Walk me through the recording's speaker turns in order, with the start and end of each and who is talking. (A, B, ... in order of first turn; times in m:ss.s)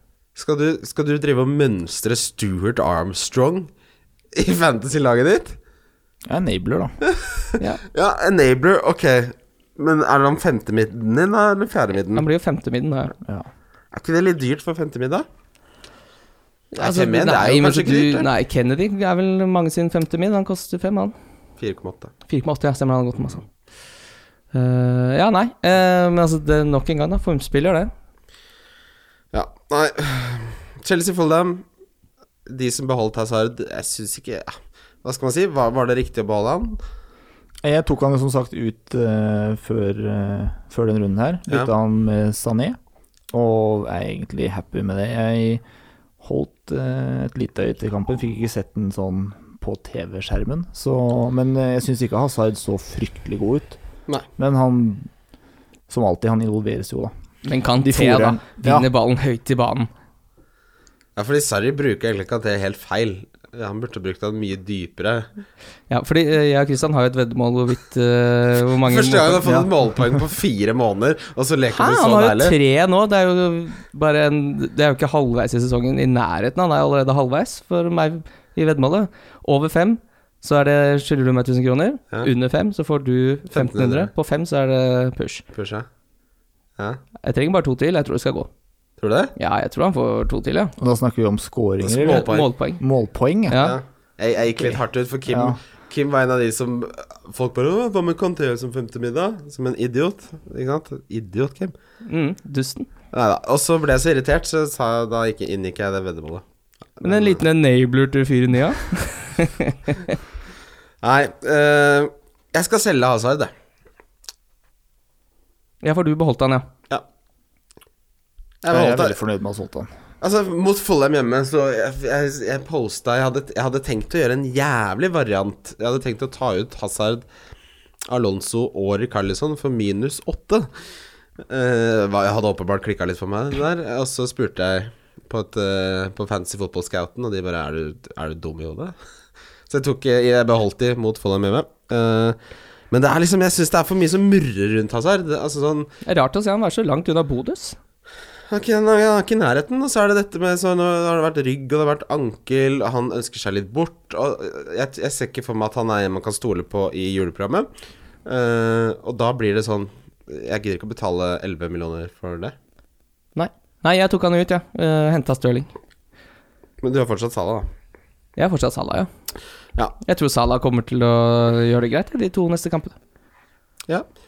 0:00.3-0:03.7 A
0:04.3-0:05.6 A
0:06.3-0:06.9 B
0:07.1-0:12.2 A
0:12.1-0:13.1 C
0:13.2-0:13.5 B
0:13.9-0:15.2 A
0:16.7-0:21.1 C
0:16.8-0:18.3 A
0:21.6-0:22.1 A
0:22.3-0:23.4 C
0:24.5-0:27.9 C
0:29.3-0:31.6 A
0:32.4-0:36.8 A
0:37.6-0:42.8 B
0:43.3-0:45.6 B
0:46.2-0:53.8 B
0:54.4-0:55.1 B
0:55.9-0:57.1 B
0:57.4-0:59.9 C
0:57.8-0:58.9 B
1:01.2-1:05.3 A
1:05.9-1:09.6 C
1:08.8-1:12.6 A
1:11.7-1:25.4 C
1:23.5-1:24.1 A
1:25.5-1:25.8 A
1:27.2-1:28.5 C
1:29.0-1:29.3 A
1:29.4-1:30.7 C
1:30.8-1:33.6 B
1:31.8-1:32.5 A
1:32.0-1:32.8 C
1:33.5-1:33.8 C
1:33.6-1:41.7 A
1:35.3-1:35.6 B
1:42.0-1:42.9 C
1:43.1-1:46.4 A
1:47.0-1:47.4 A
1:47.0-1:50.2 C
1:51.0-1:53.5 A
1:55.8-1:56.6 C
1:58.6-1:59.2 A
1:58.7-1:59.9 B
2:00.2-2:07.2 A
2:08.0-2:10.7 A
2:11.5-2:18.9 A
2:19.7-2:22.4 A
2:22.9-2:25.9 A
2:26.0-2:27.8 C
2:28.5-2:37.7 A
2:38.2-2:42.5 A
2:43.4-2:45.7 C
2:46.8-2:47.7 A
2:48.4-2:49.1 C
2:50.0-2:53.0 C